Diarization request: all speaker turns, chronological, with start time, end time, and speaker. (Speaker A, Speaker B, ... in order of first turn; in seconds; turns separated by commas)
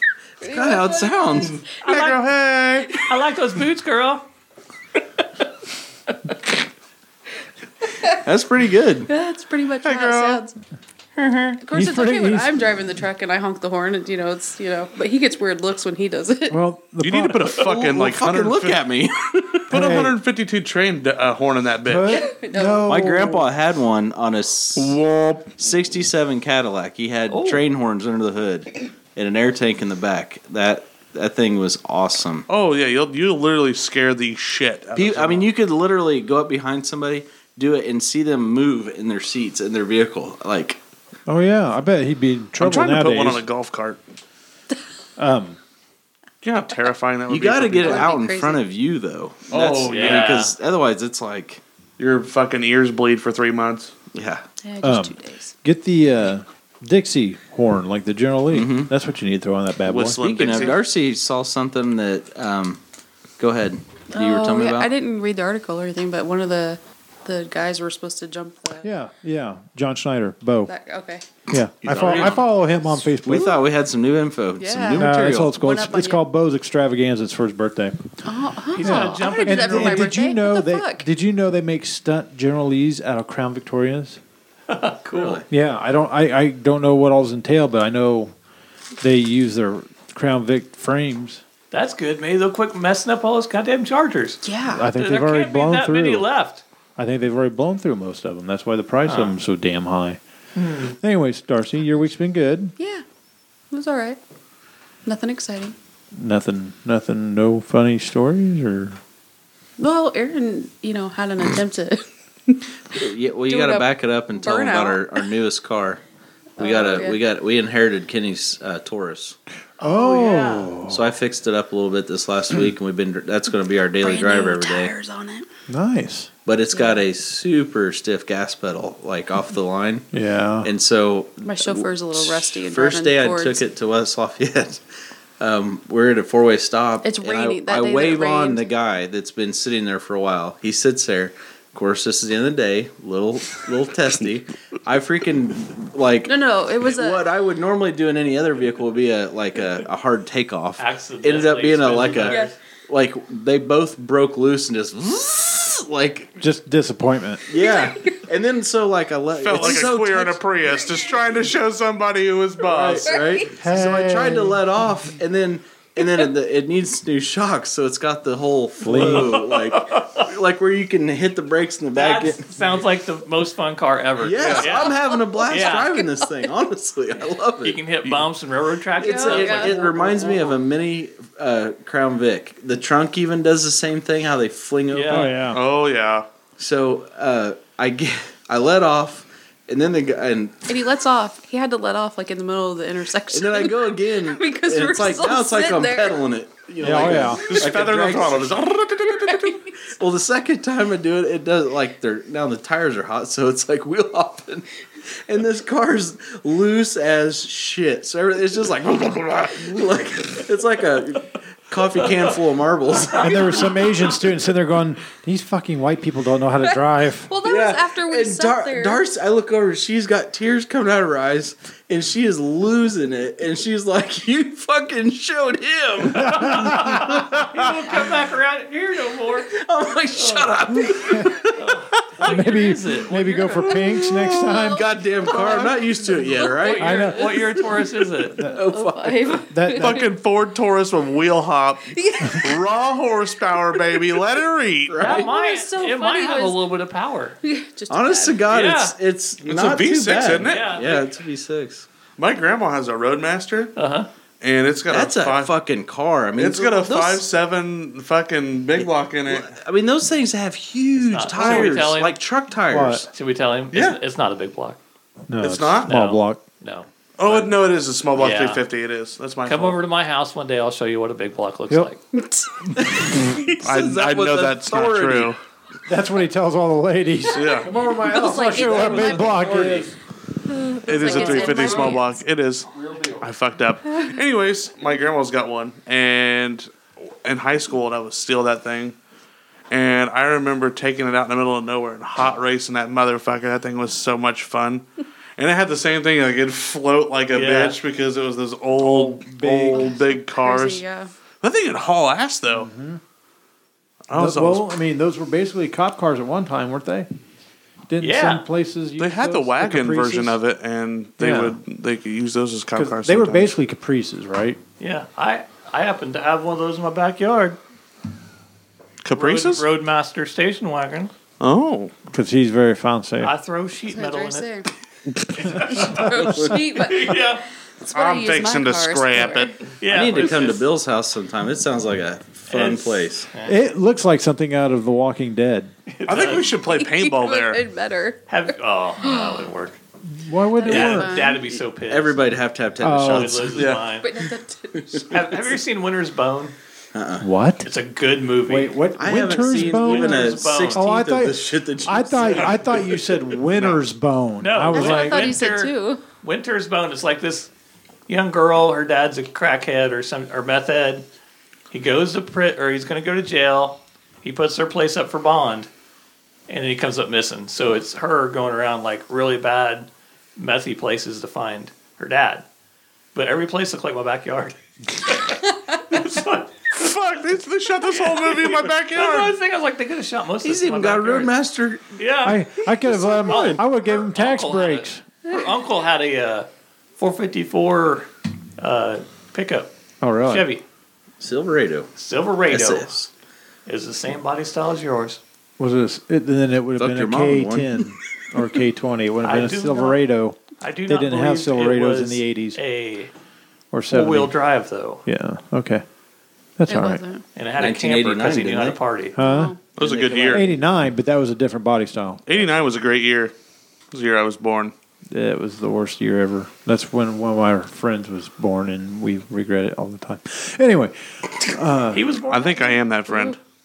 Speaker A: 0.4-1.6, Speaker B: 0.4-1.6, Speaker C: 1.8-2.2, Speaker D: 1.9-3.0, Speaker C: 2.9-4.2, Speaker B: 8.2-9.1, Speaker A: 9.1-10.5, Speaker D: 9.8-10.4, Speaker C: 11.2-11.6, Speaker A: 11.6-16.6, Speaker E: 11.7-12.6, Speaker E: 16.5-17.5, Speaker D: 17.0-18.8, Speaker B: 17.6-19.6, Speaker D: 19.7-22.2, Speaker E: 19.7-20.1, Speaker E: 21.9-23.4, Speaker A: 22.1-22.9, Speaker B: 22.9-25.0, Speaker D: 24.8-25.5, Speaker B: 25.6-32.5, Speaker C: 27.3-27.6, Speaker D: 32.5-35.5, Speaker B: 35.0-40.8, Speaker E: 41.3-43.4, Speaker D: 42.6-44.0, Speaker E: 45.2-45.6, Speaker D: 46.4-48.1, Speaker B: 47.3-51.6, Speaker A: 47.8-48.6, Speaker D: 49.5-50.4, Speaker C: 49.9-50.5, Speaker D: 52.0-53.9, Speaker B: 54.1-54.4, Speaker A: 54.6-55.5, Speaker E: 54.8-60.2, Speaker B: 58.5-58.9, Speaker D: 59.9-60.8, Speaker B: 60.2-62.8, Speaker B: 63.4-64.9, Speaker A: 64.1-68.9, Speaker E: 68.8-70.7, Speaker A: 70.7-71.2, Speaker E: 71.5-73.6, Speaker B: 71.8-75.6, Speaker C: 72.0-72.3, Speaker A: 74.6-76.2, Speaker E: 75.0-78.0, Speaker A: 78.2-81.0, Speaker C: 78.7-80.2, Speaker E: 78.8-84.2, Speaker C: 84.7-85.4, Speaker B: 85.1-85.5, Speaker E: 85.5-88.3, Speaker E: 89.0-91.4, Speaker C: 91.7-94.4, Speaker A: 94.4-94.9, Speaker E: 94.6-96.3, Speaker C: 94.9-96.6, Speaker E: 97.0-100.2, Speaker C: 99.0-99.3, Speaker C: 100.6-101.0, Speaker E: 100.8-102.7, Speaker A: 102.8-103.0, Speaker A: 103.7-104.2, Speaker A: 105.0-105.8, Speaker E: 106.1-109.0, Speaker A: 109.8-112.0, Speaker B: 113.0-116.0, Speaker A: 113.5-115.2, Speaker A: 116.6-117.2, Speaker B: 116.6-119.4, Speaker E: 119.8-121.1, Speaker C: 119.8-120.7, Speaker B: 120.9-124.9, Speaker A: 124.0-125.5, Speaker E: 125.7-126.3, Speaker B: 126.5-130.1, Speaker A: 126.7-127.0, Speaker E: 130.1-130.7, Speaker B: 130.6-134.8, Speaker A: 131.4-133.6, Speaker B: 135.4-156.3, Speaker A: 137.0-138.6, Speaker A: 146.3-147.2, Speaker C: 150.8-152.6, Speaker E: 156.4-157.5, Speaker B: 157.5-160.4, Speaker A: 157.6-158.2, Speaker D: 159.3-163.2, Speaker B: 162.6-172.5, Speaker A: 163.1-163.5, Speaker E: 163.6-164.7, Speaker E: 168.8-169.4, Speaker C: 168.9-170.3, Speaker C: 171.9-175.9, Speaker B: 174.2-177.8, Speaker D: 174.4-174.7, Speaker A: 174.6-176.5, Speaker C: 177.6-180.5, Speaker D: 178.0-178.3, Speaker B: 179.0-185.4, Speaker A: 179.0-180.5, Speaker C: 184.9-185.3, Speaker E: 185.1-185.6, Speaker D: 185.5-186.3, Speaker B: 186.6-190.7, Speaker A: 190.7-196.2, Speaker B: 193.3-198.6, Speaker E: 196.8-197.5, Speaker D: 197.4-199.6, Speaker B: 200.0-204.7, Speaker B: 205.3-213.7, Speaker E: 213.2-217.3, Speaker A: 217.3-219.0, Speaker B: 217.4-226.5, Speaker C: 226.1-229.5, Speaker E: 226.2-227.2, Speaker B: 229.5-231.6, Speaker C: 230.2-230.5, Speaker E: 230.8-231.4, Speaker C: 231.6-233.8, Speaker E: 232.2-234.9, Speaker A: 234.5-237.6, Speaker B: 234.6-237.1, Speaker C: 236.6-238.4, Speaker E: 236.8-237.3, Speaker E: 238.4-238.6, Speaker B: 238.4-239.4, Speaker A: 238.7-240.1, Speaker E: 239.5-240.0, Speaker D: 239.8-241.9, Speaker A: 241.9-242.7, Speaker D: 242.4-245.1, Speaker A: 243.7-244.2, Speaker B: 244.9-245.3, Speaker C: 245.0-247.4, Speaker A: 245.1-246.6, Speaker A: 247.4-248.4, Speaker B: 247.9-251.9, Speaker C: 248.5-249.0, Speaker D: 249.4-251.0, Speaker C: 250.4-251.0, Speaker D: 252.2-253.7, Speaker C: 253.8-254.1, Speaker D: 254.4-255.5, Speaker B: 254.9-257.2, Speaker D: 256.4-259.6, Speaker B: 258.8-263.1, Speaker C: 261.0-262.2, Speaker D: 261.3-261.8, Speaker E: 262.7-263.1, Speaker C: 263.1-264.8, Speaker D: 263.7-264.0, Speaker E: 265.3-266.4, Speaker D: 265.4-265.9, Speaker C: 265.9-267.6, Speaker D: 267.2-269.8, Speaker C: 268.1-268.6, Speaker C: 269.4-272.0, Speaker A: 272.1-273.5, Speaker B: 272.8-275.3, Speaker D: 273.6-275.4, Speaker E: 275.9-279.9, Speaker D: 277.3-277.7, Speaker A: 277.9-279.4, Speaker B: 278.3-279.9, Speaker A: 280.5-282.2, Speaker D: 280.8-286.7, Speaker B: 281.1-281.7, Speaker D: 287.2-289.0, Speaker D: 289.7-294.9, Speaker D: 295.4-300.8, Speaker C: 297.3-297.8, Speaker E: 298.8-299.9, Speaker A: 299.7-301.1, Speaker D: 301.4-302.7, Speaker E: 302.5-303.0, Speaker D: 304.1-304.7, Speaker E: 304.1-307.1, Speaker E: 307.9-310.4, Speaker C: 308.0-308.4, Speaker D: 309.0-313.5, Speaker E: 311.2-311.6, Speaker E: 312.8-314.6, Speaker C: 314.8-317.6, Speaker D: 319.0-319.6, Speaker C: 319.1-321.1, Speaker D: 321.4-321.9, Speaker E: 322.1-323.3, Speaker C: 323.2-324.5, Speaker A: 323.9-324.7, Speaker C: 325.4-327.4, Speaker A: 325.5-327.4, Speaker B: 326.0-326.6, Speaker A: 327.9-329.5, Speaker D: 327.9-329.6, Speaker C: 329.8-330.7, Speaker B: 329.9-333.3, Speaker C: 332.5-333.6, Speaker E: 333.4-335.7, Speaker C: 335.9-336.5, Speaker D: 336.1-337.6, Speaker A: 336.5-338.2, Speaker C: 338.3-339.8, Speaker A: 339.0-339.4, Speaker E: 340.0-341.2, Speaker A: 340.6-341.4, Speaker C: 340.7-342.2, Speaker B: 341.5-343.7, Speaker E: 342.8-343.5, Speaker C: 343.0-344.1, Speaker D: 343.6-343.9, Speaker A: 344.0-345.2, Speaker B: 344.8-345.2, Speaker C: 345.1-346.5, Speaker B: 346.9-347.3, Speaker E: 347.2-347.7, Speaker C: 347.6-348.8, Speaker E: 348.5-355.3, Speaker B: 349.0-352.8, Speaker C: 349.4-350.9, Speaker C: 354.4-357.5, Speaker A: 354.7-356.0, Speaker C: 358.1-361.1, Speaker C: 361.7-365.7, Speaker C: 366.5-372.4, Speaker C: 373.1-376.9, Speaker D: 376.8-379.4, Speaker C: 377.9-381.3, Speaker B: 380.4-381.8, Speaker C: 381.9-388.1, Speaker E: 382.2-385.0, Speaker C: 388.6-389.7, Speaker E: 390.0-390.5, Speaker C: 390.2-390.6, Speaker B: 391.2-391.9, Speaker C: 392.0-392.9, Speaker B: 392.5-393.1, Speaker C: 393.7-395.2, Speaker E: 395.6-402.6, Speaker B: 396.8-397.9, Speaker C: 399.2-400.0, Speaker C: 400.6-403.1, Speaker E: 403.7-404.4, Speaker C: 403.9-405.0, Speaker E: 405.1-405.9, Speaker E: 406.6-407.0, Speaker A: 406.7-407.2, Speaker C: 407.4-409.2, Speaker B: 407.6-408.8, Speaker E: 409.2-409.6, Speaker A: 409.2-409.6, Speaker D: 409.8-410.4, Speaker B: 409.8-410.4, Speaker E: 410.3-412.2, Speaker D: 412.3-413.3, Speaker D: 413.9-414.7, Speaker E: 415.1-422.1, Speaker C: 421.9-422.8, Speaker D: 422.3-423.4